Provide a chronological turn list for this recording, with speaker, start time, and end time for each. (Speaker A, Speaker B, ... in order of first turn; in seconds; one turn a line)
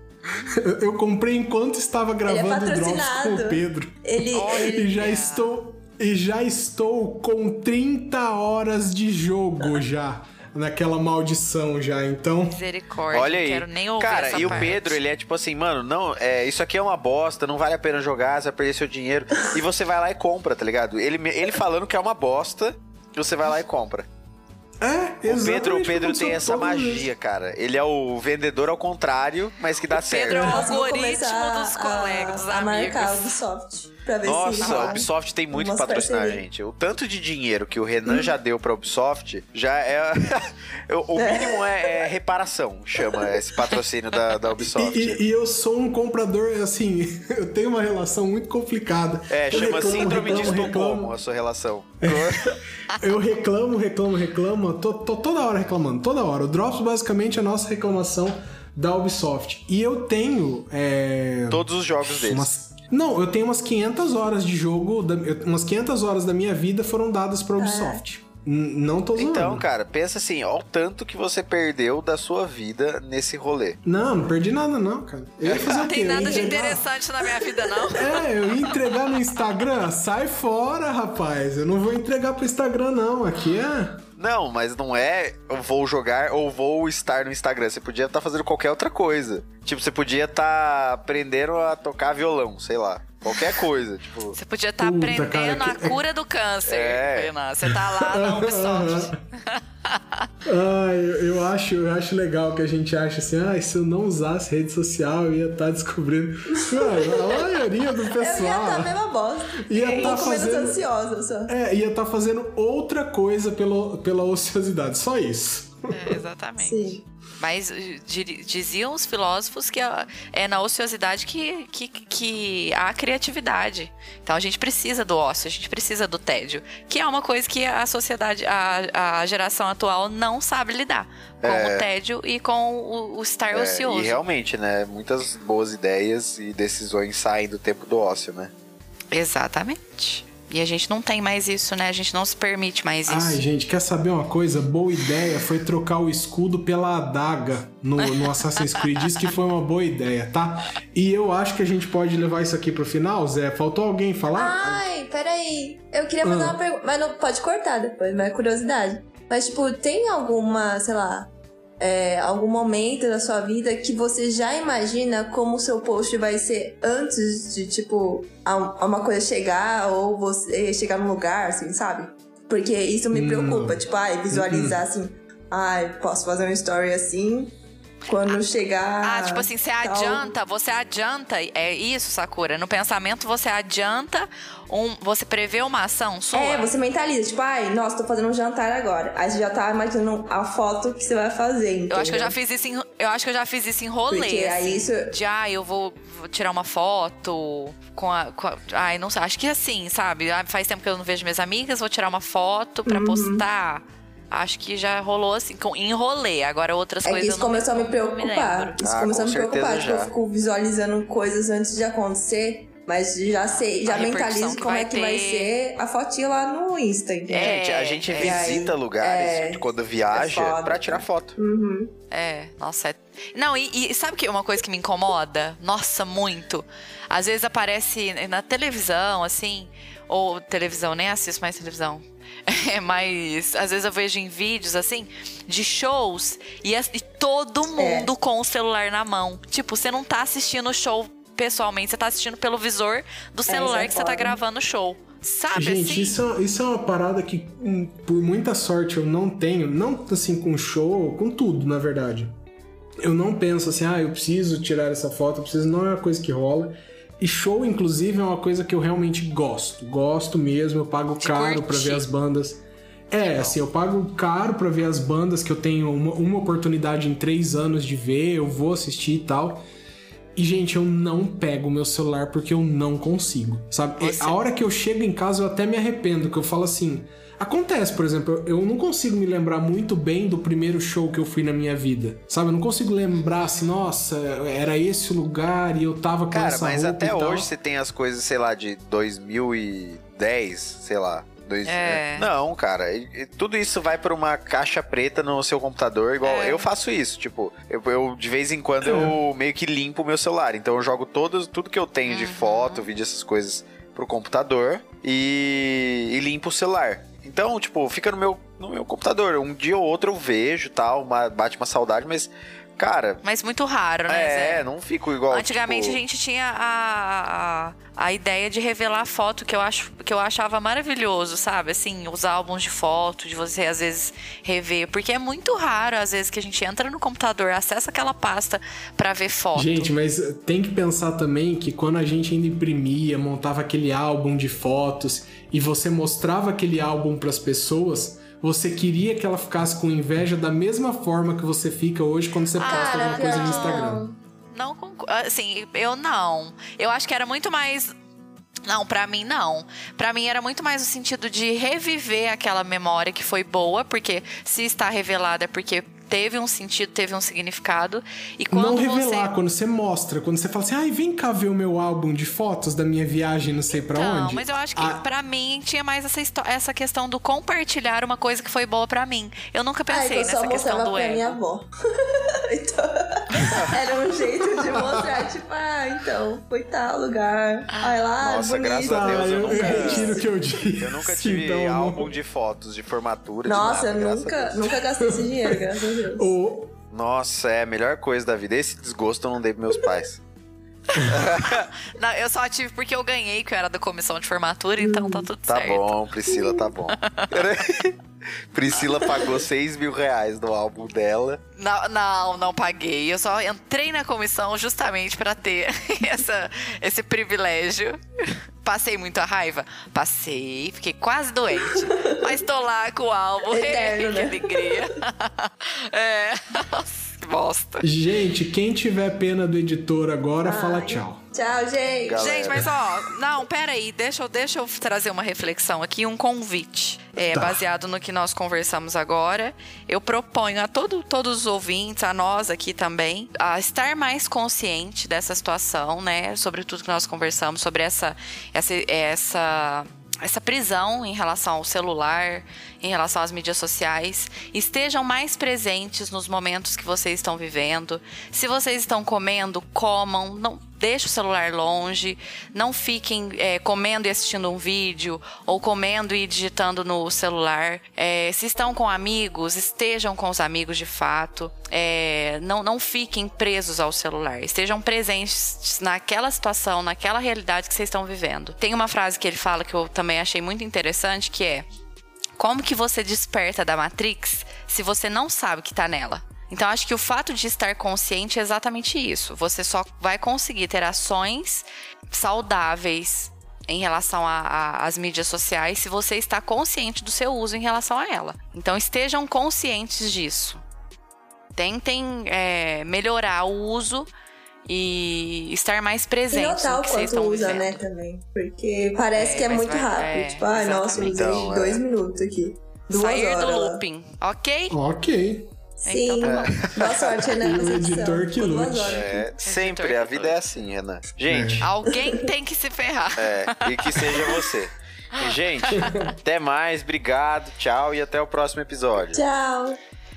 Speaker A: 0.3-12.6
Speaker B: 2.2-4.9
Speaker C: 4.3-5.5
Speaker C: 12.5-15.0
Speaker D: 13.1-24.1
Speaker A: 24.8-27.1
Speaker D: 25.2-30.6
Speaker C: 29.9-33.4
Speaker B: 30.3-36.4
Speaker D: 34.2-45.2
Speaker C: 34.6-35.0
Speaker B: 38.0-38.3
Speaker B: 41.1-42.1
Speaker A: 44.6-51.1
Speaker D: 49.3-52.6
Speaker B: 49.6-50.4
Speaker A: 52.0-69.7
Speaker D: 61.5-62.5
Speaker B: 67.6-68.0
Speaker D: 69.2-73.8
Speaker A: 73.8-76.9
Speaker D: 75.4-76.3
Speaker C: 75.6-78.6
Speaker A: 77.8-84.0
Speaker D: 84.2-94.3
Speaker C: 94.3-100.3
Speaker A: 94.8-96.0
Speaker D: 96.7-97.3
Speaker A: 97.7-99.2
Speaker A: 100.5-108.9
Speaker B: 106.5-107.4
Speaker B: 108.2-111.5
Speaker A: 109.7-110.8
Speaker C: 109.8-110.2
Speaker A: 111.5-116.2
Speaker C: 115.9-134.2
Speaker B: 116.6-117.0
Speaker D: 131.4-131.8
Speaker D: 133.5-138.5
Speaker C: 139.1-143.4
Speaker A: 143.1-154.8
Speaker C: 148.0-149.1
Speaker B: 154.3-177.5
Speaker A: 156.2-156.6
Speaker A: 173.1-174.8
Speaker B: 178.1-180.3
Speaker C: 179.0-186.7
Speaker B: 186.3-192.3
Speaker C: 191.9-208.8
Speaker B: 194.1-195.1
Speaker B: 202.8-203.4
Speaker B: 207.0-217.6
Speaker D: 208.8-210.1
Speaker C: 213.8-215.5
Speaker C: 217.3-218.5
Speaker D: 217.4-221.3
Speaker B: 218.1-221.9
Speaker C: 222.1-246.2
Speaker B: 237.7-238.1
Speaker B: 243.5-244.4
Speaker A: 245.5-252.3
Speaker A: 253.0-269.6
Speaker C: 261.2-262.0
Speaker C: 263.2-263.6
Speaker A: 270.4-287.5
Speaker C: 274.0-274.4
Speaker D: 286.3-313.2
Speaker C: 291.6-292.3
Speaker C: 296.2-296.7
Speaker A: 298.8-299.2
Speaker C: 302.1-302.9
Speaker C: 313.2-314.7
Speaker D: 314.1-316.0
Speaker C: 315.3-329.9
Speaker A: 329.5-344.0
Speaker C: 342.6-344.0
Speaker B: 342.6-344.2
Speaker C: 344.5-347.9
Speaker C: 348.7-359.3
Speaker A: 358.5-365.0
Speaker C: 363.8-371.4
Speaker B: 369.9-380.3
Speaker D: 373.4-373.7
Speaker A: 374.7-375.0
Speaker D: 378.2-384.6
Speaker A: 378.8-382.1
Speaker B: 383.4-386.3
Speaker A: 385.0-386.7
Speaker D: 386.9-390.2
Speaker C: 390.9-396.4
Speaker D: 391.0-391.7
Speaker B: 394.8-395.3
Speaker D: 395.5-397.9
Speaker C: 397.0-397.6
Speaker D: 398.5-401.4
Speaker C: 398.7-399.4
Speaker C: 401.6-417.9
Speaker B: 411.7-412.2
Speaker B: 413.5-414.8
Speaker A: 417.8-421.2
Speaker B: 420.4-422.5
Speaker D: 422.0-422.8
Speaker C: 422.2-471.6
Speaker A: 427.3-427.6
Speaker C: 472.4-490.6
Speaker C: 491.5-494.1
Speaker C: 494.7-497.8
Speaker B: 496.3-503.8
Speaker C: 499.1-501.5
Speaker D: 500.9-501.8
Speaker C: 502.9-504.8
Speaker A: 504.7-505.5
Speaker B: 505.8-509.2
Speaker C: 505.9-506.8
Speaker D: 506.2-506.8
Speaker A: 506.8-509.2
Speaker D: 508.8-511.7
Speaker C: 509.4-510.6
Speaker A: 511.3-511.7
Speaker C: 511.6-514.5
Speaker D: 513.2-519.2
Speaker C: 515.1-516.1
Speaker A: 515.8-516.1
Speaker B: 519.1-519.8